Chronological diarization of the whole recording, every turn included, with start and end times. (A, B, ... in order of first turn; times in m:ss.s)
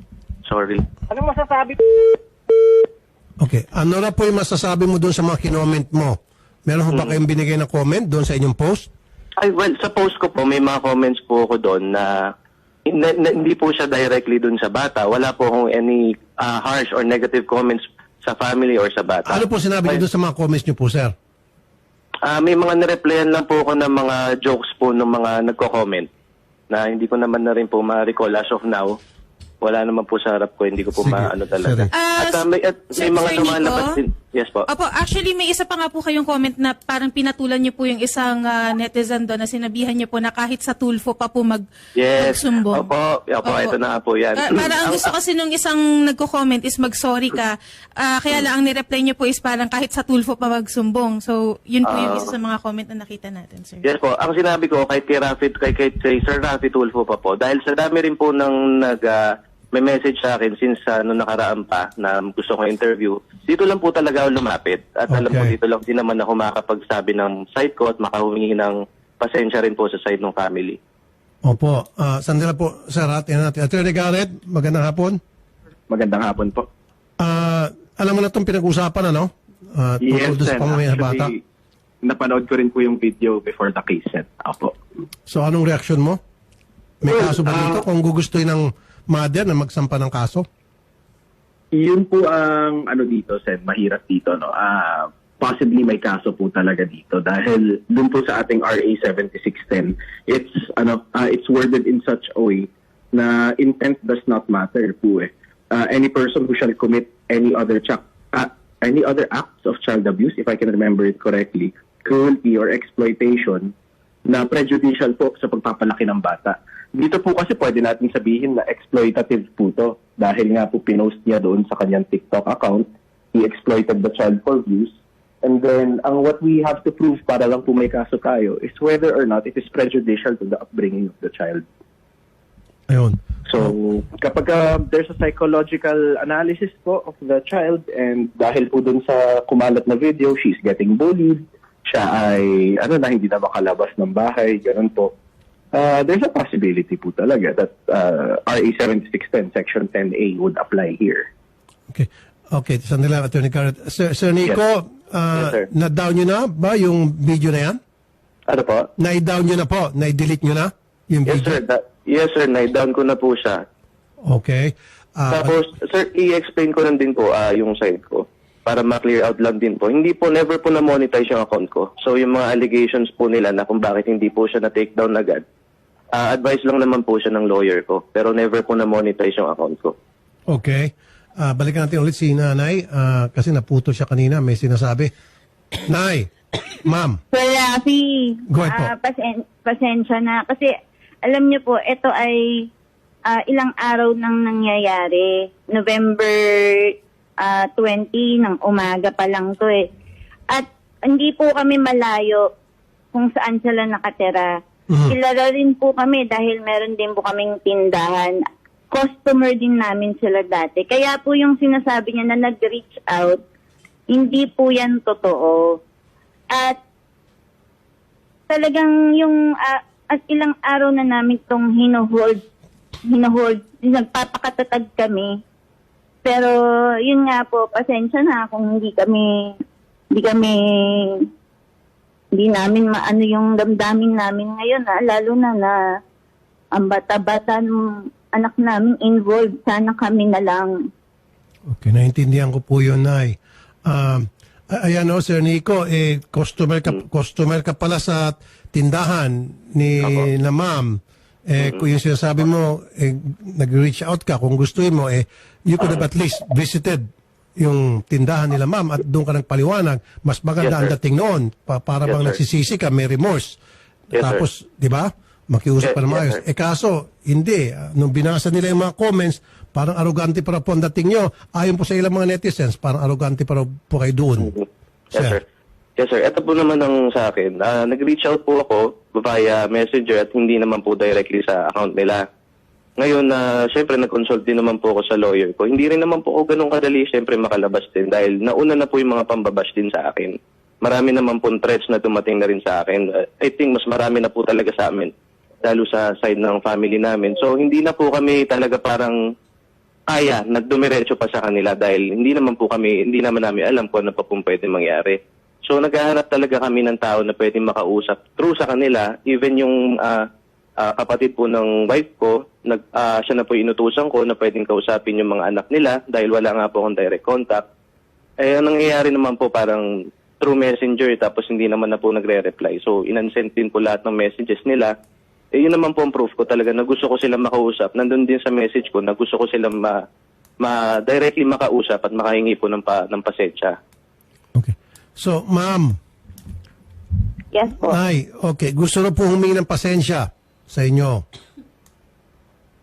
0:00.5-0:00.8 A
0:03.4-0:08.9 B
0:09.4-0:12.3 A
0:12.9-0:20.0 A
0:19.3-0:21.1 B
0:22.2-0:26.1 A
0:26.7-0:29.0 A
0:29.6-0:34.7 A
0:31.0-0:31.9 B
0:31.9-0:34.0 C
0:34.7-0:42.9 C
0:42.0-0:45.1 A
0:43.4-0:43.8 C
0:44.3-0:53.9 C
0:51.8-0:52.3 A
0:53.8-1:10.8 A
1:05.1-1:05.5 B
1:11.4-1:15.2 B
1:15.9-1:16.7 D
1:17.2-1:21.3 B
1:20.0-1:21.4 D
1:22.0-1:24.8 D
1:25.3-1:26.2 B
1:27.0-1:30.5 B
1:27.1-1:27.8 D
1:31.7-1:53.7 D
1:54.3-2:11.6 D
2:12.9-2:13.2 B
2:13.5-2:25.1 D
2:25.7-2:31.3 D
2:31.9-2:37.8 B
2:35.4-2:35.7 A
2:38.5-2:38.9 A
2:39.0-2:41.6 B
2:41.3-2:43.6 A
2:44.3-2:45.6 B
2:45.3-2:55.4 A
2:56.1-3:00.0 A
3:00.5-3:05.1 B
3:05.9-3:07.2 B
3:07.3-3:10.7 E
3:08.5-3:08.9 B
3:11.2-3:12.7 E
3:13.3-3:19.9 E
3:20.5-3:22.4 E
3:23.1-3:24.5 E
3:25.1-3:28.4 E
3:28.9-3:33.4 E
3:34.1-3:35.7 E
3:36.5-3:36.8 E
3:38.5-3:42.4 E
3:43.1-3:45.4 E
3:46.2-3:49.5 E
3:50.1-3:51.3 E
3:52.4-3:55.8 E
3:56.8-4:00.7 E
4:01.7-4:17.0 B
4:17.6-4:23.6 B
4:20.6-4:20.9 A
4:22.1-4:22.4 A
4:24.1-4:34.6 B
4:24.2-4:24.4 A
4:25.8-4:26.4 A
4:35.1-4:35.4 B
4:35.1-4:35.4 A
4:36.0-4:42.2 A
4:43.0-4:55.1 A
4:55.6-4:59.2 A
5:00.1-5:10.2 A
5:10.8-5:17.6 A
5:18.4-5:19.9 A
5:20.4-5:24.9 A
5:25.6-5:30.0 A
5:30.6-5:33.8 A
5:34.6-5:36.0 B
5:37.5-5:38.0 E
5:37.8-5:41.2 B